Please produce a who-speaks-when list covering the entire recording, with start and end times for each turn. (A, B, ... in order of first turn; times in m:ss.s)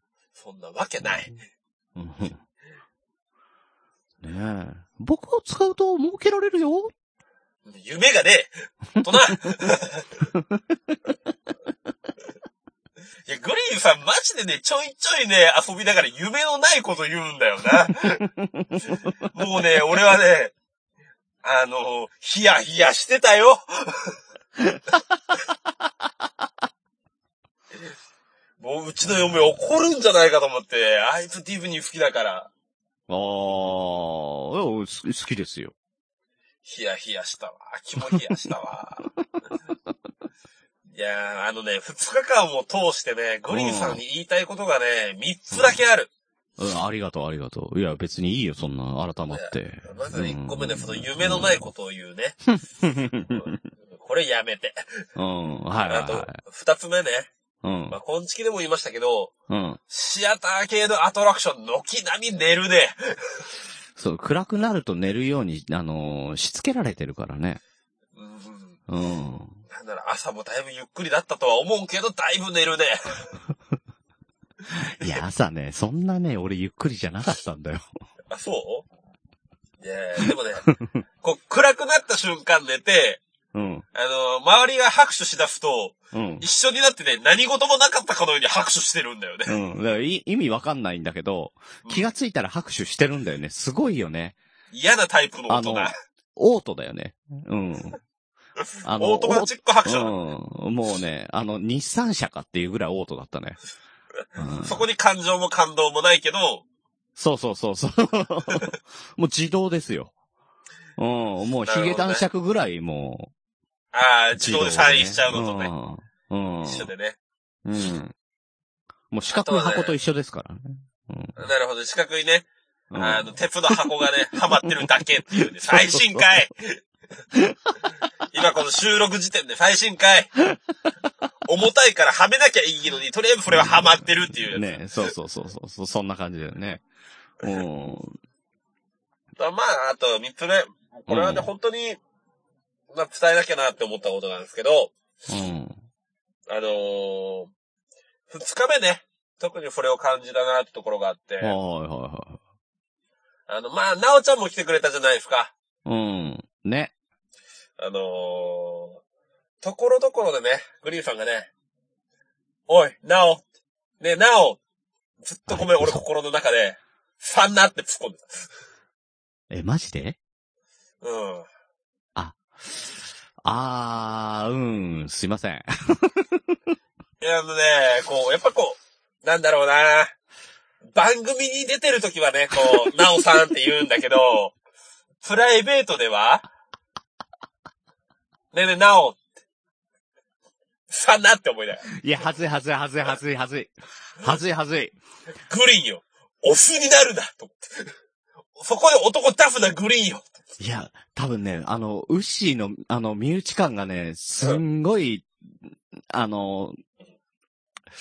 0:00.4-0:01.4 A
0:01.0-0:01.4 B
0:02.0-0:02.4 B
0:04.2-0:06.9 B
0:07.7-0:10.2 A
0:10.3-0:11.0 B
0:13.3-0:18.3 A
0:18.2-0:19.0 B
0:19.3-0:20.5 A
0:21.4-0:24.1 A
0:24.6-0:25.2 B
0:28.6-0:32.5 A
0:33.1-0:35.7 B
0:36.6-0:39.1 A
0:40.9-0:46.1 A
0:43.5-0:44.0 B
0:46.6-0:51.6 B
0:49.3-0:52.4 A
0:52.5-0:53.6 B
0:53.2-0:54.8 A
0:55.2-0:56.4 B
0:55.9-0:57.3 A
0:57.6-0:58.0 B
0:57.9-0:59.3 A
0:59.5-0:59.8 B
0:59.9-1:03.0 A
1:04.0-1:07.6 B
1:08.2-1:08.8 A
1:08.9-1:09.6 B
1:09.7-1:13.3 A
1:14.7-1:17.8 B
1:18.3-1:18.8 A
1:19.8-1:20.7 A
1:21.2-1:23.2 A
1:23.5-1:23.8 B
1:24.0-1:29.6 A
1:26.1-1:26.4 B
1:29.5-1:34.4 B
1:31.8-1:32.1 A
1:34.7-1:35.9 A
1:35.5-1:38.0 B
1:38.8-1:43.6 B
1:39.0-1:40.1 A
1:44.4-1:44.8 B
1:44.6-1:46.6 A
1:47.2-1:50.1 B
1:51.0-1:53.3 B
1:51.7-1:52.2 A
1:53.9-1:55.7 A
1:54.4-1:56.9 B
1:56.6-1:57.2 A
1:57.6-1:58.1 B
1:59.1-2:01.3 B
1:59.3-1:59.9 A
2:01.4-2:02.5 A
2:02.9-2:03.2 B
2:03.0-2:06.8 A
2:05.6-2:06.4 B
2:07.3-2:07.7 B
2:08.3-2:10.3 A
2:11.5-2:14.8 A
2:13.5-2:16.8 B
2:17.4-2:18.2 B
2:19.4-2:22.0 A
2:21.1-2:21.5 B
2:22.9-2:24.9 A
2:25.3-2:25.8 B
2:26.5-2:27.5 A
2:28.3-2:31.6 A
2:31.4-2:32.4 B
2:33.5-2:35.5 A
2:35.8-2:36.9 B
2:37.8-2:39.0 A
2:39.6-2:41.5 A
2:42.7-2:43.4 A
2:44.0-2:44.6 A
2:45.2-2:48.5 A
2:45.5-2:46.0 B
2:49.5-2:50.2 B
2:51.0-2:51.5 A
2:52.2-2:52.9 B
2:53.4-2:56.6 B
2:57.2-3:00.1 A
3:00.9-3:04.6 A
3:02.6-3:03.0 B
3:05.2-3:06.5 A
3:08.5-3:09.2 A
3:10.9-3:11.9 A
3:11.9-3:15.0 B
3:15.5-3:17.9 A
3:18.6-3:20.4 A
3:20.6-3:25.3 B
3:26.1-3:26.8 B